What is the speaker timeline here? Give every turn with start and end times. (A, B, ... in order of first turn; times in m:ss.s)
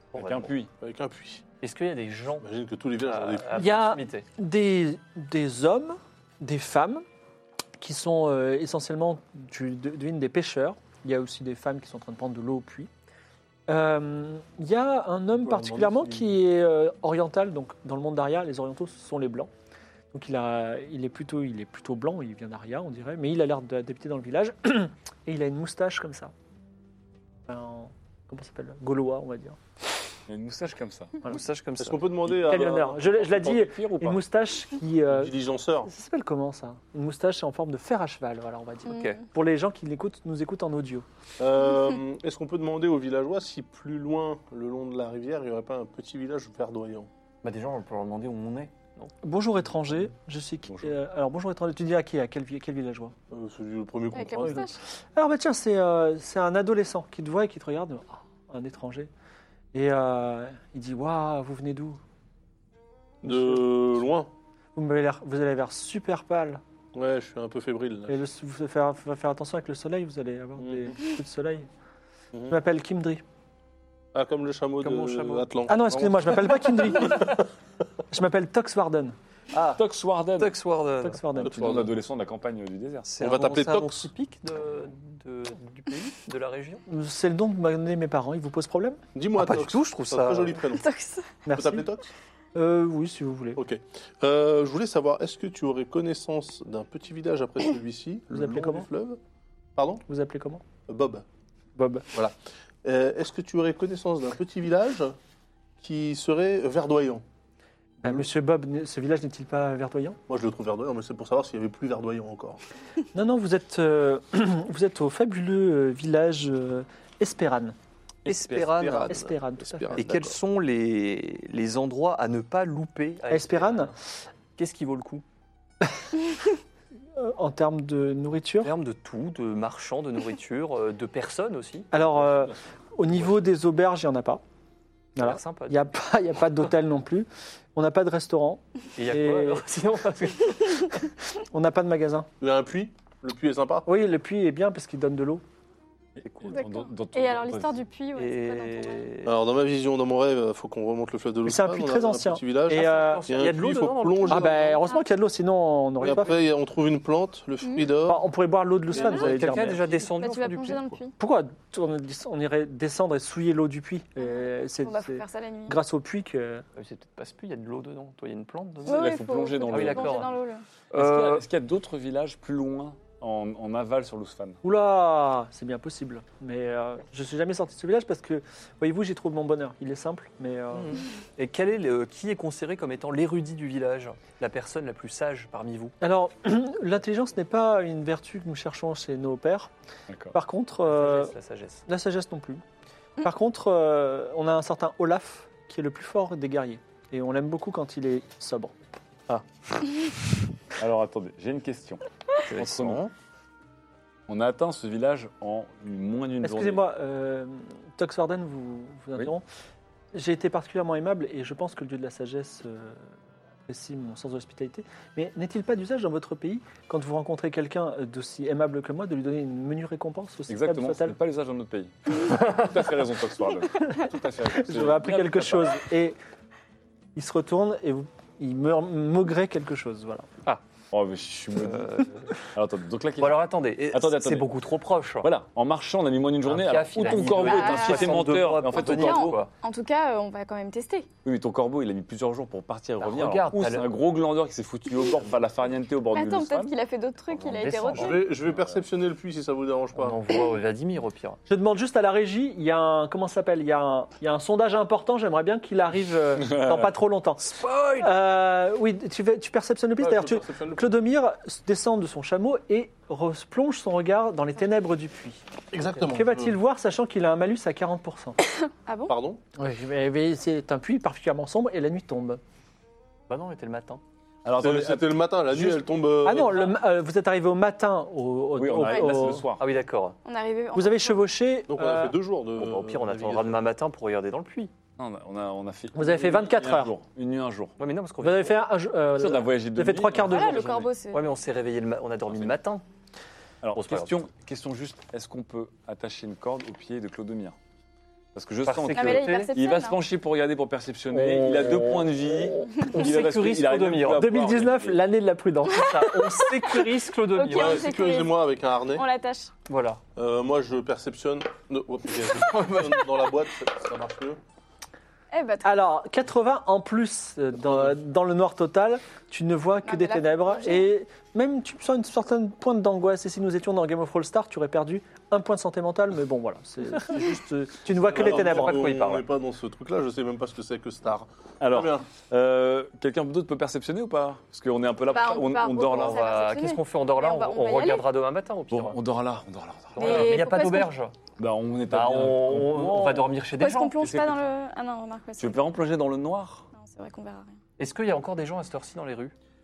0:00.1-0:00.5 A
0:00.1-0:00.7 B
0:00.8-0:01.5 C
0:01.6-0:02.5 A
0:02.4-0:03.8 C
0:03.0-0:04.3 A
0:03.6-0:07.0 D
0:07.8-0:12.9 D
0:13.7-0:19.5 D
0:15.4-0:16.3 C
0:20.1-0:26.3 D
0:27.5-0:29.6 D
0:30.3-0:31.2 B
0:31.2-0:32.3 A
0:31.8-0:33.2 C
0:32.4-0:35.3 D
0:33.2-0:34.2 B
0:35.1-0:35.9 C
0:35.9-0:41.0 D
0:38.9-0:39.2 A
0:38.9-0:39.2 E
0:41.4-0:47.1 C
0:47.4-0:49.1 A
0:49.2-0:53.2 D
0:53.3-0:54.7 C
0:54.1-0:54.8 E
0:54.4-0:59.1 D
0:59.7-1:02.0 D
1:03.2-1:04.3 C
1:03.2-1:03.6 D
1:04.8-1:06.6 D
1:06.9-1:08.2 C
1:08.1-1:11.7 D
1:10.6-1:11.0 C
1:12.5-1:13.2 D
1:14.1-1:17.3 C
1:14.8-1:15.5 A
1:15.7-1:17.4 D
1:18.1-1:19.2 D
1:19.5-1:19.8 A
1:19.8-1:20.6 B
1:20.4-1:21.4 A
1:21.0-1:21.7 D
1:21.4-1:23.1 B
1:21.4-1:21.9 C
1:23.0-1:26.8 A
1:23.2-1:24.1 C
1:26.9-1:29.0 D
1:29.2-1:30.9 C
1:29.4-1:30.6 A
1:30.7-1:31.3 E
1:31.5-1:31.9 D
1:31.5-1:32.1 C
1:32.6-1:33.6 D
1:33.6-1:39.2 C
1:38.3-1:38.9 D
1:39.8-1:40.0 C
1:40.1-1:40.6 D
1:40.9-1:41.2 C
1:41.8-1:42.1 D
1:42.1-1:45.2 C
1:45.8-1:47.2 C
1:48.0-1:50.2 D
1:50.3-1:52.6 C
1:53.1-1:57.8 D
1:58.3-1:58.7 B
1:58.3-1:59.3 A
1:58.5-2:00.4 C
1:59.1-2:00.0 D
1:59.9-2:03.9 A
2:03.3-2:03.9 D
2:04.6-2:05.2 A
2:05.8-2:06.1 D
2:07.2-2:08.7 D
2:08.6-2:11.9 A
2:11.9-2:14.4 D
2:12.2-2:12.5 C
2:15.2-2:15.9 A
2:15.2-2:19.7 D
2:19.0-2:20.9 A
2:21.4-2:22.3 D
2:22.4-2:23.9 C
2:23.9-2:25.4 D
2:26.2-2:27.8 B
2:26.2-2:26.6 A
2:26.5-2:29.1 E
2:28.2-2:29.4 A
2:29.3-2:34.6 C
2:31.5-2:33.3 D
2:32.7-2:34.8 A
2:34.3-2:36.3 D
2:36.0-2:38.2 C
2:38.1-2:39.8 D
2:38.9-2:39.8 C
2:39.0-2:39.2 E
2:39.0-2:41.0 A
2:39.9-2:41.1 E
2:41.2-2:46.6 D
2:44.2-2:45.8 E
2:46.8-2:49.1 A
2:48.9-2:50.2 B
2:48.9-2:50.6 E
2:49.7-2:50.3 A
2:50.9-2:54.6 B
2:50.9-2:51.4 A
2:54.6-3:01.0 D
3:00.7-3:05.9 A
3:06.0-3:09.7 D
3:10.1-3:10.4 B
3:10.3-3:11.3 D
3:10.8-3:11.8 A
3:11.9-3:12.6 D
3:13.2-3:18.7 D
3:20.8-3:23.0 B
3:22.5-3:23.1 A
3:24.3-3:26.8 B
3:26.4-3:29.4 D
3:30.1-3:33.2 D
3:33.7-3:41.2 D
3:40.5-3:45.8 B
3:44.5-3:46.2 D
3:47.2-3:50.3 D
3:50.9-3:54.5 B
3:51.6-3:52.3 A
3:53.2-3:55.3 A
3:55.2-3:59.4 B
3:56.4-3:59.5 A
3:57.2-4:01.1 E
4:01.2-4:06.8 B
4:03.0-4:03.9 A
4:06.1-4:08.3 E
4:07.3-4:07.7 B
4:07.5-4:08.4 A
4:07.9-4:10.2 C
4:08.5-4:08.8 B
4:10.0-4:11.4 A
4:11.5-4:25.4 D
4:16.4-4:16.9 B
4:17.5-4:18.1 A
4:20.0-4:20.9 C
4:25.7-4:26.5 C
4:26.1-4:28.4 D
4:28.7-4:29.1 E
4:29.1-4:29.4 C
4:29.6-4:32.4 D
4:33.3-4:34.0 A
4:34.4-4:35.8 B
4:34.6-4:36.7 C
4:36.2-4:39.5 D
4:38.6-4:39.6 B
4:39.6-4:40.2 A
4:40.2-4:41.3 E
4:40.7-4:42.2 D
4:41.7-4:43.6 C
4:42.5-4:44.7 A
4:45.0-4:47.8 B
4:45.9-4:46.9 D
4:47.8-4:48.6 A
4:48.2-4:50.8 D
4:49.1-4:50.6 B
4:50.3-4:51.2 E
4:51.1-4:52.8 A
4:52.3-4:52.5 B
4:53.6-4:57.6 B
4:53.8-4:54.2 A
4:58.3-5:05.0 B
4:58.6-4:59.5 A
4:58.9-5:00.0 E
5:01.1-5:04.3 A
5:04.2-5:06.9 D
5:05.7-5:08.4 E
5:05.7-5:07.9 A
5:07.5-5:09.1 C
5:09.0-5:09.5 E
5:09.7-5:10.0 A
5:10.2-5:14.4 C
5:12.6-5:13.2 A
5:15.3-5:15.9 E
5:15.6-5:28.8 D
5:17.7-5:17.9 C
5:19.9-5:20.9 E
5:28.0-5:32.0 C
5:28.1-5:29.3 A
5:31.6-5:36.3 B
5:35.1-5:38.1 E
5:35.8-5:39.0 A
5:38.7-5:40.3 B
5:39.9-5:41.1 A
5:40.0-5:40.9 E
5:41.4-5:43.4 B
5:41.9-5:44.1 A
5:43.6-5:45.6 E
5:44.0-5:44.4 B
5:45.4-5:46.7 B
5:46.7-5:47.6 E
5:47.8-5:49.3 A